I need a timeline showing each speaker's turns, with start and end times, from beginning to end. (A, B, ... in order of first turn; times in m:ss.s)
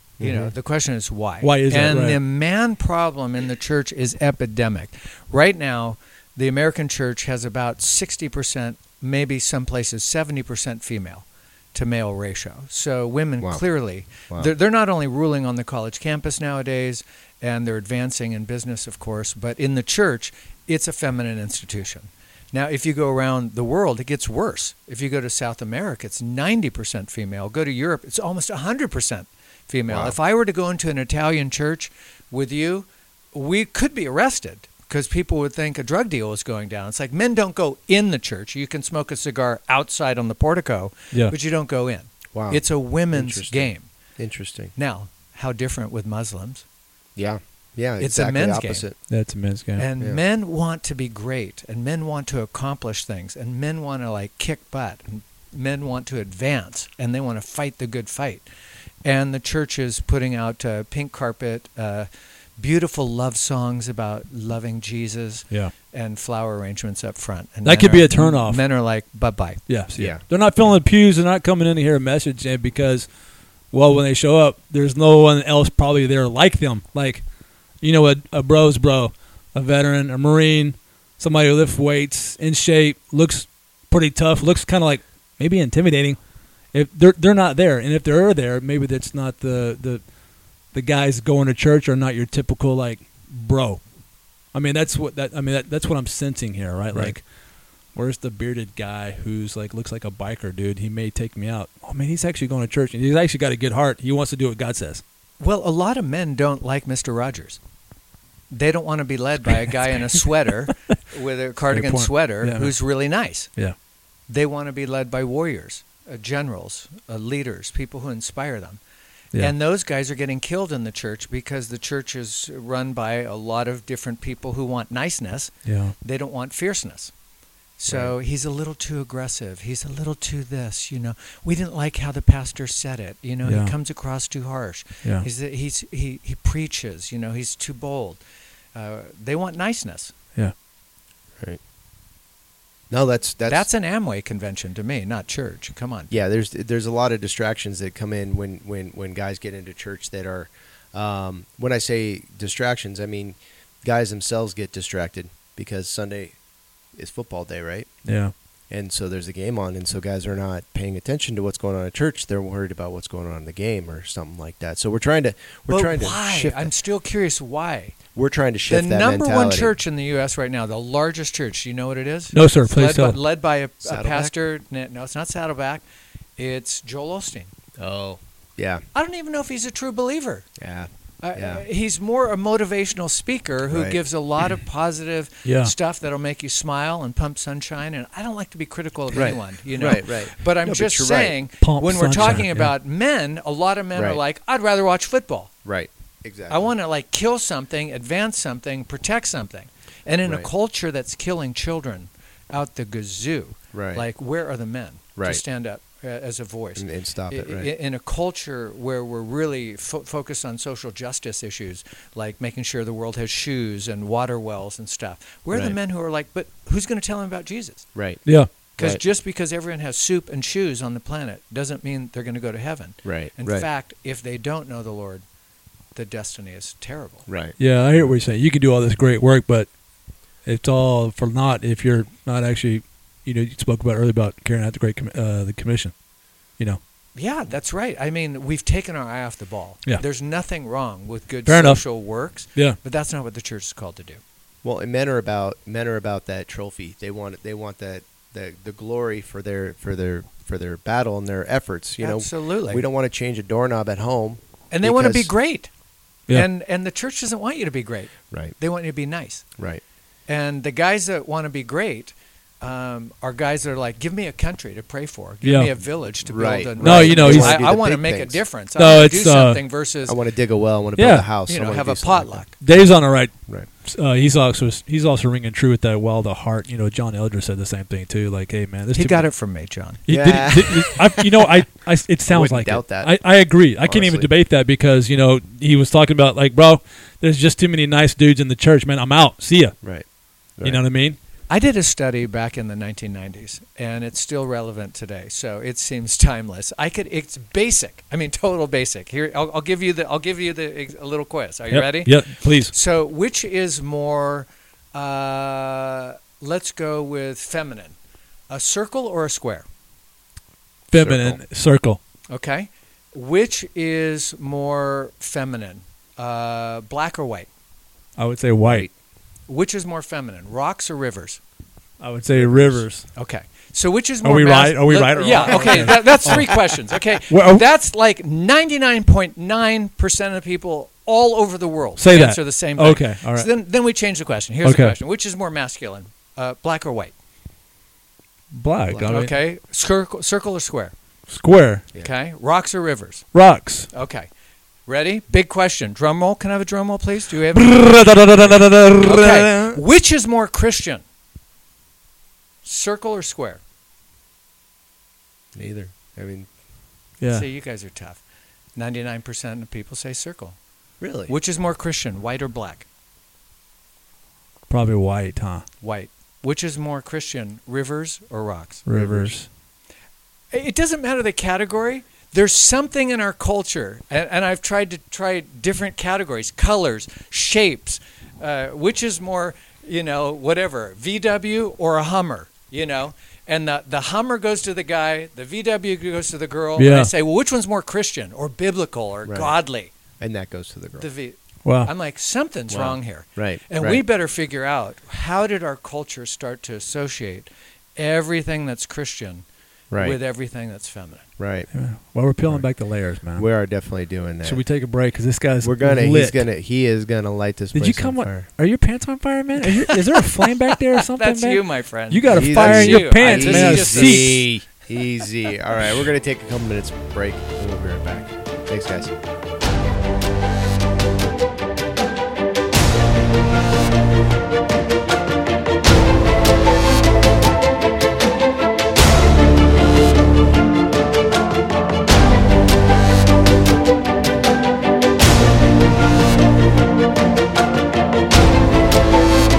0:00.2-0:00.5 A
0:00.2-0:43.9 B
0:01.4-0:02.2 C
0:29.9-0:30.2 A
0:42.3-0:44.7 A
0:44.8-0:46.6 B
0:47.2-0:49.0 A
0:48.0-0:48.8 B
0:49.1-0:49.9 C
0:49.8-0:58.4 B
0:59.0-1:09.6 B
1:07.6-1:08.6 C
1:09.7-1:13.0 C
1:10.0-1:10.2 A
1:13.7-1:17.2 C
1:17.8-1:26.2 C
1:26.7-1:30.0 C
1:30.7-1:33.8 C
1:34.5-1:37.2 C
1:37.9-1:45.0 C
1:45.4-1:47.6 B
1:48.5-1:53.5 B
1:49.5-1:50.7 C
1:51.7-1:52.7 C
1:54.3-1:58.8 B
1:59.4-2:07.1 B
2:05.6-2:05.9 C
2:07.8-2:18.2 B
2:07.9-2:08.1 A
2:13.4-2:13.7 C
2:18.7-2:20.1 B
2:22.9-2:23.7 A
2:23.5-2:26.1 B
2:26.1-2:36.4 A
2:36.9-2:38.0 A
2:38.0-2:38.3 C
2:38.7-2:46.7 A
2:45.7-2:48.0 B
2:48.1-2:49.7 A
2:48.7-2:55.8 B
2:52.3-2:53.2 C
2:53.8-2:54.3 A
2:56.4-2:57.5 B
2:57.8-2:58.8 A
2:58.9-3:00.4 B
3:00.6-3:01.6 A
3:01.2-3:15.5 B
3:03.7-3:04.0 A
3:05.4-3:05.7 C
3:09.1-3:11.3 A
3:11.6-3:12.7 C
3:13.9-3:14.2 A
3:15.6-3:16.7 A
3:16.5-3:37.9 B
3:23.7-3:24.0 A
3:25.2-3:25.4 A
3:26.8-3:27.7 A
3:35.5-3:35.8 A
3:37.9-3:39.0 A
3:38.7-3:45.2 B
3:43.0-3:43.7 A
3:45.9-3:47.3 B
3:47.3-3:47.6 A
3:47.6-3:49.7 C
3:50.4-3:55.9 C
3:57.2-4:04.2 B
4:01.4-4:01.8 C
4:04.6-4:15.3 A
4:12.0-4:12.8 B
4:14.7-4:15.7 B
4:16.3-4:19.4 B
4:18.3-4:18.6 A
4:19.6-4:19.8 A
4:20.3-4:30.2 B
4:25.4-4:25.7 C
4:26.3-4:28.4 A
4:26.8-4:27.6 C
4:28.7-4:29.6 C
4:30.0-4:32.4 A
4:31.0-4:31.3 C
4:31.5-4:32.5 B
4:32.6-4:33.3 C
4:33.8-4:39.2 C
4:38.9-4:40.0 B
4:40.1-4:49.8 C
4:40.1-4:41.5 A
4:42.3-4:43.1 A
4:43.8-4:44.3 A
4:50.6-4:51.2 C
4:51.5-5:07.9 B
5:01.7-5:02.7 C
5:08.5-5:09.6 B
5:10.9-5:12.0 C
5:10.9-5:11.4 A
5:12.3-5:17.5 B
5:18.2-5:18.9 C
5:18.6-5:18.9 A
5:19.5-5:21.4 B
5:22.0-5:23.0 C
5:22.3-5:22.8 A
5:23.1-5:37.1 B
5:24.2-5:26.6 C
5:25.5-5:25.9 A
5:27.3-5:27.7 C
5:32.0-5:33.5 C
5:34.6-5:34.9 C
5:38.5-5:39.3 C
5:38.9-5:40.9 B
5:41.3-5:41.8 C
5:42.0-5:43.3 B
5:43.3-5:43.9 C
5:43.9-5:44.3 B
5:44.9-5:51.0 B
5:47.5-5:49.5 C
5:49.1-5:49.8 A
5:52.6-5:53.6 B
5:55.5-5:56.5 A
5:57.2-5:57.4 C
5:57.2-5:58.2 B
5:58.8-6:00.6 B
6:01.0-6:01.3 A
6:01.3-6:02.8 B
6:04.7-6:05.6 C
6:05.8-6:08.8 B
6:08.8-6:09.5 C
6:08.9-6:09.3 A
6:10.5-6:29.9 B
6:26.8-6:27.1 C
6:29.2-6:29.5 A
6:30.2-6:31.1 A
6:31.0-6:39.4 B
6:31.6-6:31.9 C
6:32.7-6:34.0 A
6:39.9-6:40.2 A
6:40.0-6:41.2 B
6:41.4-6:41.7 A
6:41.7-6:43.4 C
6:43.3-6:44.6 A
6:44.4-6:46.4 C
6:45.6-6:48.5 A
6:47.7-6:54.4 C
6:49.6-6:54.4 B
6:52.3-6:59.1 A